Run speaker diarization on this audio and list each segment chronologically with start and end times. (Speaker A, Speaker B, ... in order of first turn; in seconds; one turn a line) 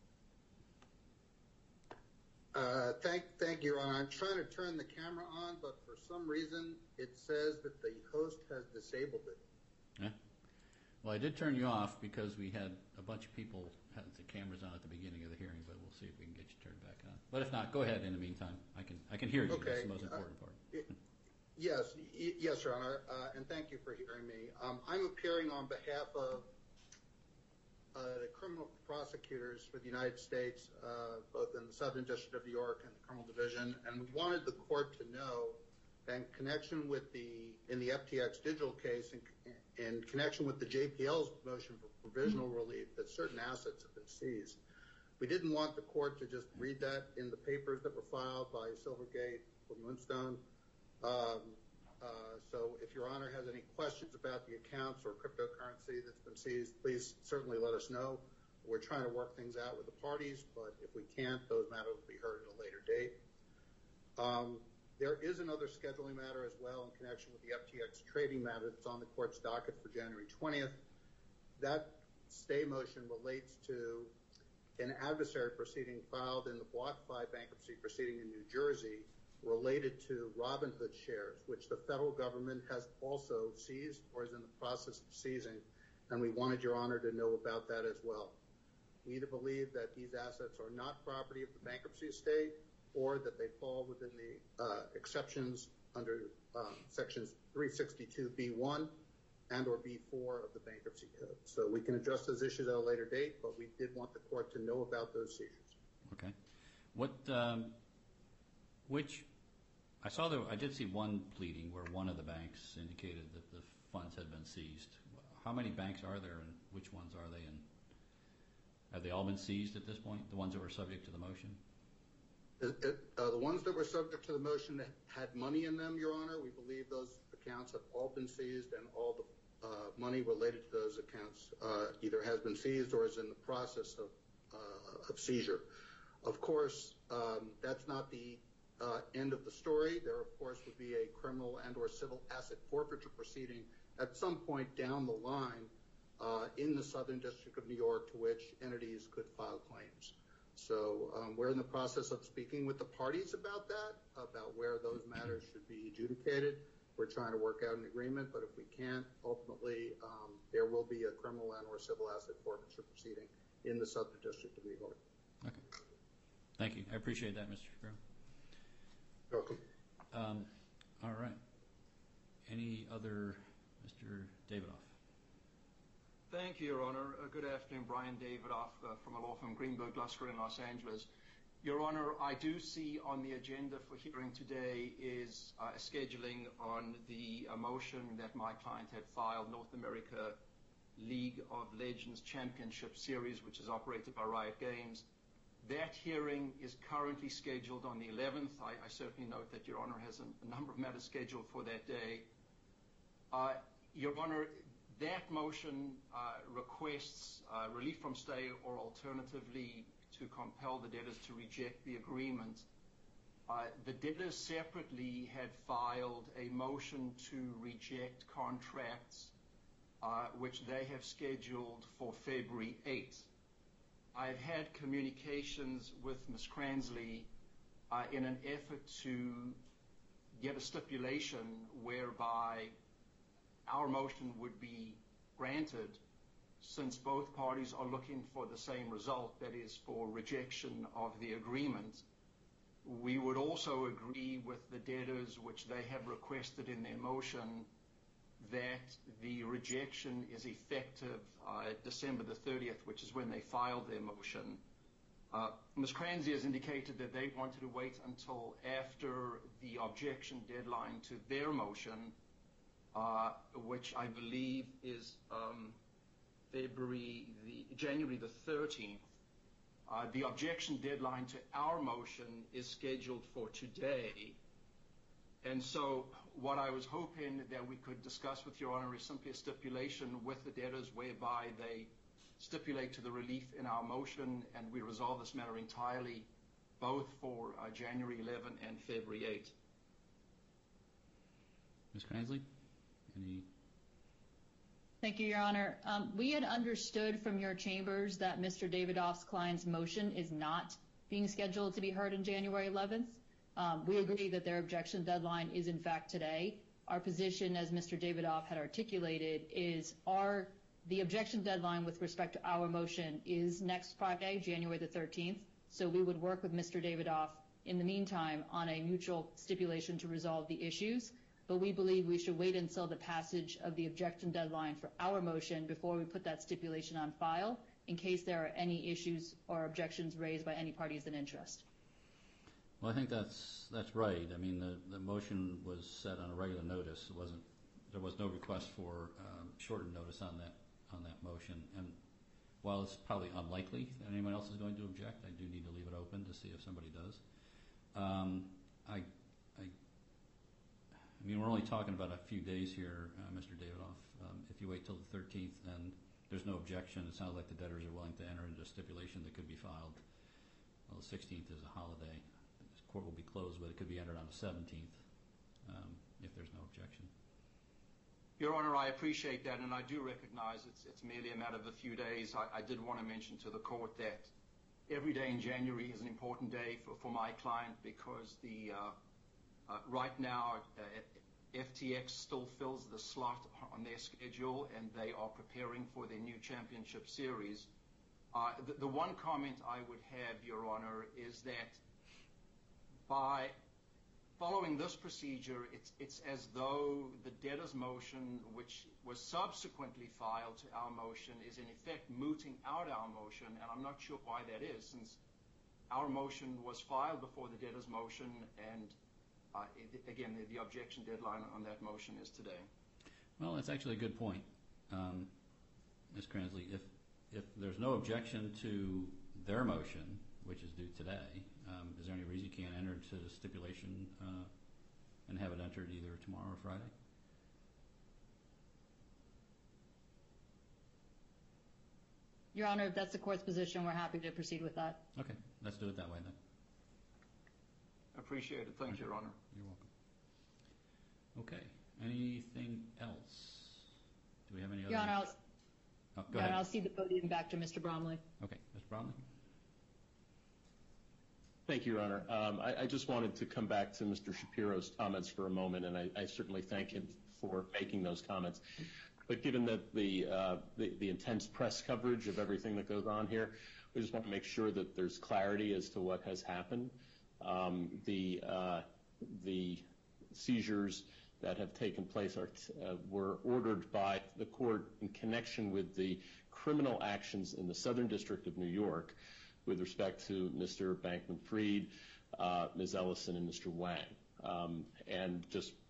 Speaker A: 2.5-9.4
Speaker B: 11.0-20.6
Speaker A: 19.5-20.2
Speaker A: 21.6-26.5
Speaker A: 27.9-44.6
Speaker A: 45.2-50.4
Speaker A: 51.0-63.1
Speaker A: 64.2-70.8
Speaker A: 71.6-74.1
Speaker A: 74.8-88.4
Speaker A: 89.0-98.9
Speaker A: 99.5-105.7
Speaker B: 106.1-106.3
Speaker B: 106.9-107.7
Speaker B: 108.9-109.3
Speaker B: 110.0-117.7
Speaker B: 118.9-121.6
Speaker A: 122.6-135.7
Speaker A: 136.2-165.0
Speaker B: 166.6-168.0
Speaker A: 169.3-169.6
Speaker B: 170.1-171.4
Speaker B: 172.5-174.9
Speaker C: 176.3-181.1
Speaker C: 181.6-190.4
Speaker C: 191.0-195.1
Speaker C: 195.6-202.3
Speaker C: 203.3-212.7
Speaker C: 213.5-219.3
Speaker C: 220.0-223.3
Speaker C: 224.1-227.3
Speaker C: 227.9-229.6
Speaker C: 230.3-232.8
Speaker C: 233.7-236.0
Speaker C: 236.6-242.0
Speaker C: 242.8-247.7
Speaker C: 248.4-254.6
Speaker C: 255.3-262.1
Speaker C: 262.9-265.8
Speaker C: 266.5-269.0
Speaker C: 269.9-274.4
Speaker C: 275.4-286.3
Speaker C: 286.8-289.5
Speaker B: 291.9-292.4
Speaker B: 293.1-293.5
Speaker D: 295.0-331.6
Speaker B: 332.8-342.0
Speaker B: 342.6-347.2
Speaker B: 347.9-349.7
Speaker B: 351.2-360.0
Speaker B: 360.9-362.2
Speaker B: 362.8-365.0
Speaker B: 365.6-367.1
Speaker C: 368.4-374.3
Speaker C: 374.9-379.0
Speaker C: 379.7-387.7
Speaker C: 388.3-391.8
Speaker C: 393.1-393.6
Speaker C: 394.4-405.2
Speaker C: 405.9-409.0
Speaker C: 409.5-412.7
Speaker B: 413.4-415.3
Speaker B: 416.1-424.5
Speaker B: 425.3-426.9
Speaker D: 432.5-435.0
Speaker B: 435.2-436.4
Speaker C: 438.1-439.4
Speaker B: 439.5-439.9
Speaker B: 441.4-443.9
Speaker B: 444.5-445.2
Speaker D: 444.9-445.3
Speaker B: 446.2-446.6
Speaker D: 446.3-448.2
Speaker B: 448.4-449.2
Speaker E: 451.7-458.6
Speaker E: 459.3-485.8